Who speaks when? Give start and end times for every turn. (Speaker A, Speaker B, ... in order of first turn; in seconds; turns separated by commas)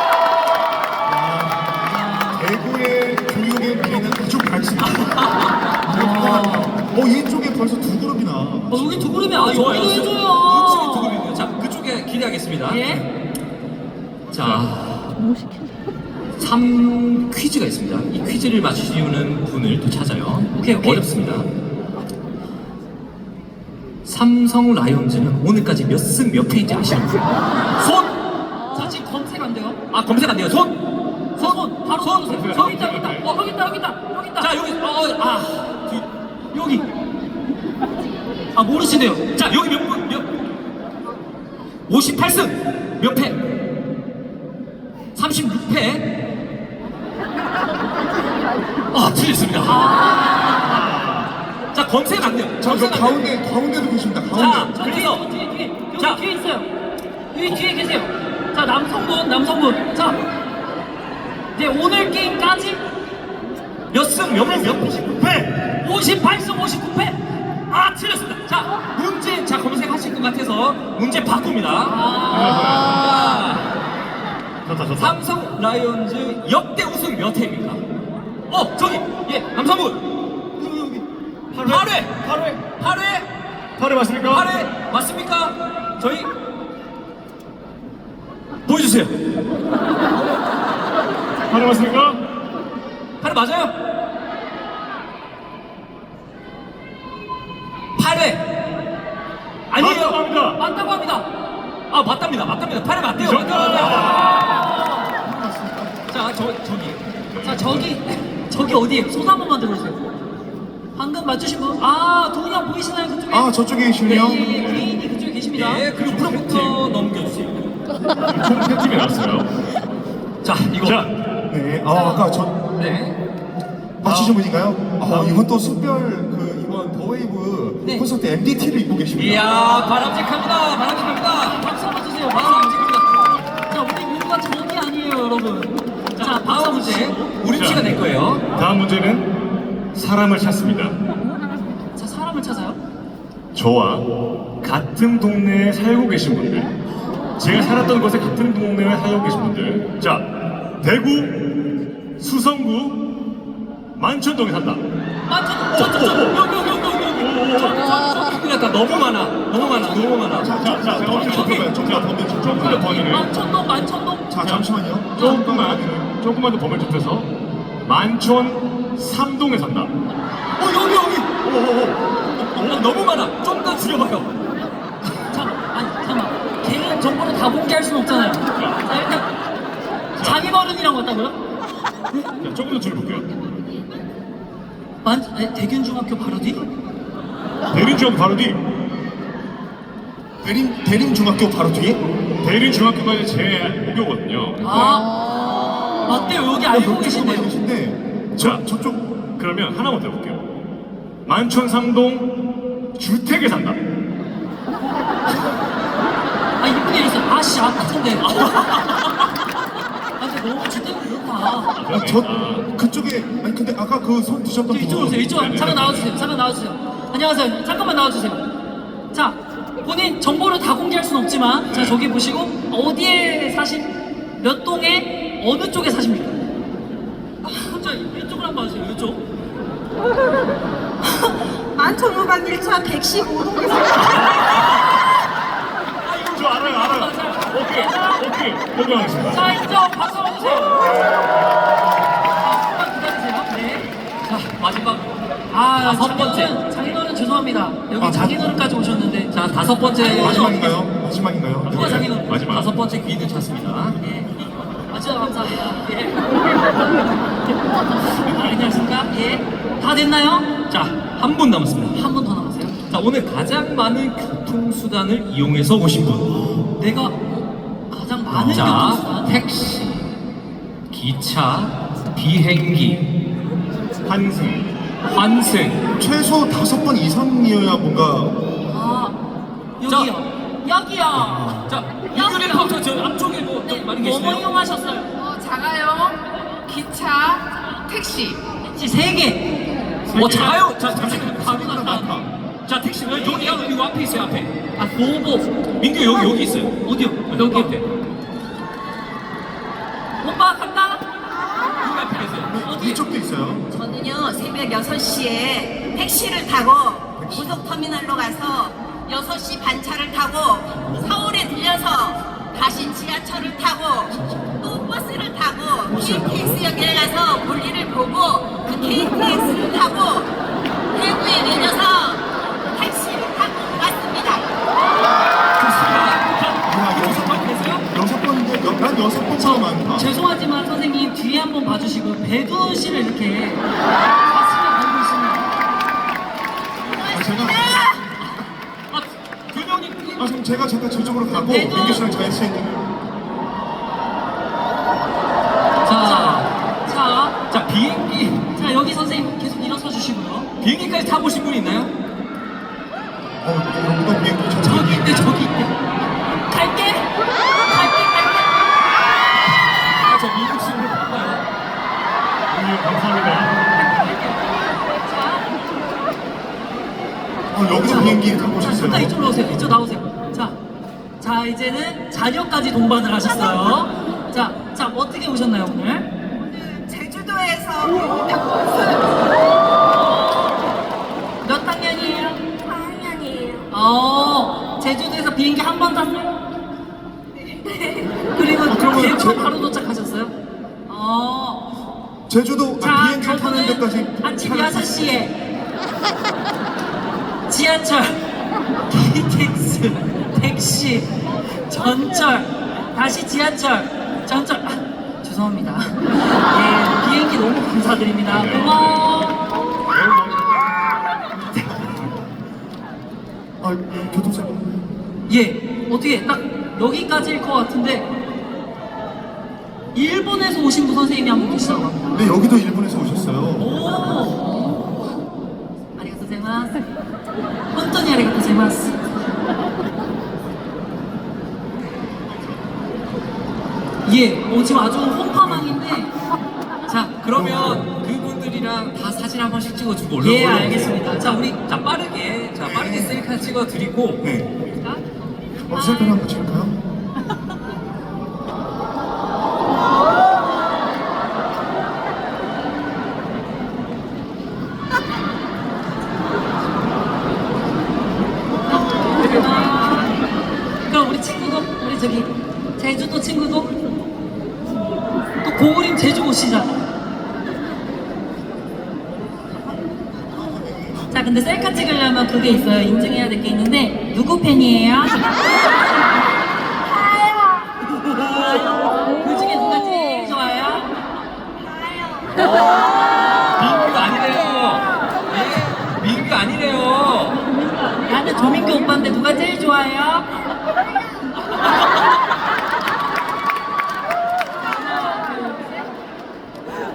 Speaker A: 1.0-1.7, Speaker B: 1.8-2.6, Speaker A: 2.3-5.2, Speaker B: 5.9-6.7, Speaker A: 5.9-9.2, Speaker B: 8.7-11.2, Speaker C: 9.3-12.8, Speaker B: 12.7-13.0, Speaker D: 14.3-14.7, Speaker C: 14.3-15.2, Speaker C: 16.4-21.5, Speaker B: 20.5-21.1, Speaker C: 24.0-28.1, Speaker B: 28.7-29.8, Speaker C: 29.9-30.7, Speaker B: 31.4-34.5, Speaker C: 31.4-32.4, Speaker D: 32.2-33.3, Speaker C: 34.4-36.0, Speaker B: 36.5-36.8, Speaker B: 38.5-39.2, Speaker C: 39.3-40.2, Speaker C: 41.9-43.4, Speaker C: 45.1-46.0, Speaker C: 48.9-49.9, Speaker B: 49.6-50.9, Speaker C: 51.7-53.2, Speaker A: 52.6-54.7, Speaker C: 54.3-55.2, Speaker B: 54.7-56.7, Speaker B: 57.3-60.2, Speaker B: 61.5-62.8, Speaker C: 63.9-65.5, Speaker B: 65.8-67.2, Speaker C: 67.7-72.0, Speaker B: 71.8-72.9, Speaker D: 72.3-73.0, Speaker C: 72.7-73.7, Speaker D: 74.7-75.1, Speaker C: 75.0-77.8, Speaker C: 78.5-80.0, Speaker B: 80.6-81.0, Speaker D: 81.5-82.7, Speaker C: 81.6-83.3, Speaker D: 83.8-84.5, Speaker C: 84.3-86.3, Speaker C: 88.7-89.1, Speaker D: 91.5-92.2, Speaker C: 93.2-93.7, Speaker C: 98.0-98.4, Speaker B: 99.7-101.3, Speaker C: 99.8-100.0, Speaker D: 99.8-100.6, Speaker C: 101.9-104.2, Speaker D: 103.2-104.3, Speaker B: 103.4-105.9, Speaker C: 106.1-107.0, Speaker D: 107.3-107.9, Speaker B: 107.4-110.0, Speaker B: 111.0-115.9, Speaker A: 113.3-114.6, Speaker D: 114.6-114.9, Speaker C: 115.5-117.7, Speaker D: 118.3-119.5, Speaker C: 120.4-121.0, Speaker D: 120.8-121.1, Speaker A: 121.5-122.6, Speaker B: 121.9-122.2, Speaker C: 122.8-123.2, Speaker A: 124.0-129.5, Speaker C: 129.2-131.6, Speaker B: 131.5-132.8, Speaker C: 132.3-133.2, Speaker B: 133.7-137.3, Speaker C: 136.2-138.4, Speaker D: 137.5-138.0, Speaker D: 138.5-139.3, Speaker D: 139.9-140.9, Speaker B: 142.0-142.8, Speaker D: 143.5-144.1, Speaker D: 144.6-146.7, Speaker D: 147.4-150.3, Speaker D: 150.8-151.4, Speaker D: 152.2-153.0, Speaker D: 154.0-154.8, Speaker B: 155.3-156.3, Speaker D: 155.8-156.3, Speaker C: 155.8-161.7, Speaker D: 157.4-157.7, Speaker A: 160.4-162.9, Speaker D: 160.5-163.3, Speaker B: 162.5-164.3, Speaker A: 164.3-166.1, Speaker D: 164.4-167.3, Speaker B: 165.2-165.4, Speaker D: 167.8-169.9, Speaker C: 170.6-171.3, Speaker D: 171.4-172.0, Speaker C: 172.5-174.3, Speaker B: 175.3-179.2, Speaker D: 178.5-178.8, Speaker D: 180.2-180.5, Speaker B: 180.2-181.3, Speaker D: 182.4-183.3, Speaker B: 185.0-186.6, Speaker D: 187.7-188.6, Speaker A: 190.4-192.0, Speaker D: 192.4-195.0, Speaker B: 194.6-195.1, Speaker B: 196.0-197.5, Speaker A: 196.7-199.0, Speaker D: 198.4-198.6, Speaker D: 199.2-200.4, Speaker D: 201.2-202.3, Speaker D: 202.9-203.8, Speaker B: 206.6-208.4, Speaker B: 210.2-211.7, Speaker D: 211.7-212.7, Speaker A: 211.9-215.3, Speaker B: 214.7-218.4, Speaker D: 215.2-216.1, Speaker B: 219.1-226.3, Speaker D: 221.7-222.0, Speaker B: 227.4-229.2, Speaker E: 231.8-234.1, Speaker D: 234.0-234.7, Speaker D: 236.1-239.5, Speaker B: 236.4-238.2, Speaker B: 239.2-241.1, Speaker D: 240.8-241.7, Speaker B: 242.3-243.9, Speaker C: 244.2-246.5, Speaker B: 245.5-249.3, Speaker A: 248.0-248.4, Speaker C: 249.3-250.5, Speaker B: 249.9-250.8, Speaker A: 250.1-252.1, Speaker D: 251.6-252.7, Speaker B: 251.7-252.3, Speaker C: 252.3-253.9, Speaker B: 254.0-256.4, Speaker B: 258.0-260.5, Speaker C: 260.7-262.0, Speaker B: 261.9-262.7, Speaker C: 262.9-266.3, Speaker B: 266.8-267.2, Speaker B: 267.9-269.4, Speaker C: 268.5-270.0, Speaker C: 270.9-273.0, Speaker D: 274.0-274.6, Speaker C: 275.1-275.8, Speaker A: 276.0-278.4, Speaker B: 278.7-279.2, Speaker B: 279.8-282.7, Speaker C: 279.8-280.1, Speaker A: 281.1-281.7, Speaker C: 281.7-284.5, Speaker B: 283.6-285.1, Speaker F: 285.2-288.4, Speaker B: 288.7-289.5, Speaker D: 290.1-290.5, Speaker C: 290.1-291.9, Speaker A: 290.2-292.3, Speaker B: 291.4-292.1, Speaker C: 292.6-294.5, Speaker B: 293.1-293.7, Speaker B: 294.8-295.4, Speaker C: 295.8-297.8, Speaker B: 296.8-297.7, Speaker B: 300.2-301.0, Speaker C: 301.8-302.5, Speaker A: 302.4-303.7, Speaker B: 302.6-303.0, Speaker E: 303.7-320.3, Speaker A: 307.1-307.6, Speaker A: 310.8-311.1, Speaker A: 314.1-314.9, Speaker A: 315.9-316.7, Speaker E: 320.9-324.4, Speaker C: 325.6-327.8, Speaker A: 326.6-330.1, Speaker B: 329.4-335.5, Speaker A: 337.1-337.8, Speaker C: 338.9-340.3, Speaker A: 340.2-342.8, Speaker B: 341.3-342.1, Speaker C: 345.9-346.5, Speaker B: 346.0-347.4, Speaker C: 347.5-348.4, Speaker B: 348.6-350.5, Speaker C: 350.6-351.9, Speaker A: 353.4-355.3, Speaker B: 354.6-355.7, Speaker B: 356.5-357.1, Speaker B: 357.6-358.5, Speaker C: 360.0-361.4, Speaker D: 362.5-363.6, Speaker B: 363.7-365.5, Speaker A: 367.5-369.7, Speaker B: 367.8-370.6, Speaker B: 371.2-376.1, Speaker E: 373.2-373.8, Speaker E: 376.5-378.2, Speaker F: 377.8-379.1, Speaker B: 381.4-382.4, Speaker F: 382.6-383.6, Speaker B: 383.7-386.3, Speaker F: 387.7-388.1, Speaker B: 388.3-390.3, Speaker A: 388.7-389.5, Speaker B: 390.9-391.7, Speaker A: 392.3-395.2, Speaker B: 392.8-395.3, Speaker B: 397.5-398.2, Speaker B: 398.9-401.1, Speaker B: 401.7-409.4, Speaker D: 408.3-409.1, Speaker D: 409.9-410.5, Speaker A: 413.6-414.7, Speaker B: 415.3-418.1, Speaker B: 419.9-422.3, Speaker A: 422.1-423.9, Speaker B: 423.6-424.6, Speaker B: 425.9-426.8, Speaker B: 427.7-429.0, Speaker A: 432.3-432.6, Speaker B: 434.0-436.1, Speaker C: 436.9-444.2, Speaker A: 437.3-437.8, Speaker B: 440.2-441.5, Speaker A: 442.6-443.2, Speaker A: 444.2-444.5, Speaker A: 445.6-446.8, Speaker B: 445.7-446.2, Speaker B: 458.9-460.1, Speaker B: 460.9-463.7, Speaker B: 465.4-466.8, Speaker A: 470.5-471.0, Speaker B: 471.1-475.2, Speaker B: 478.4-480.9, Speaker C: 483.6-487.4, Speaker B: 488.0-490.3, Speaker B: 495.1-495.6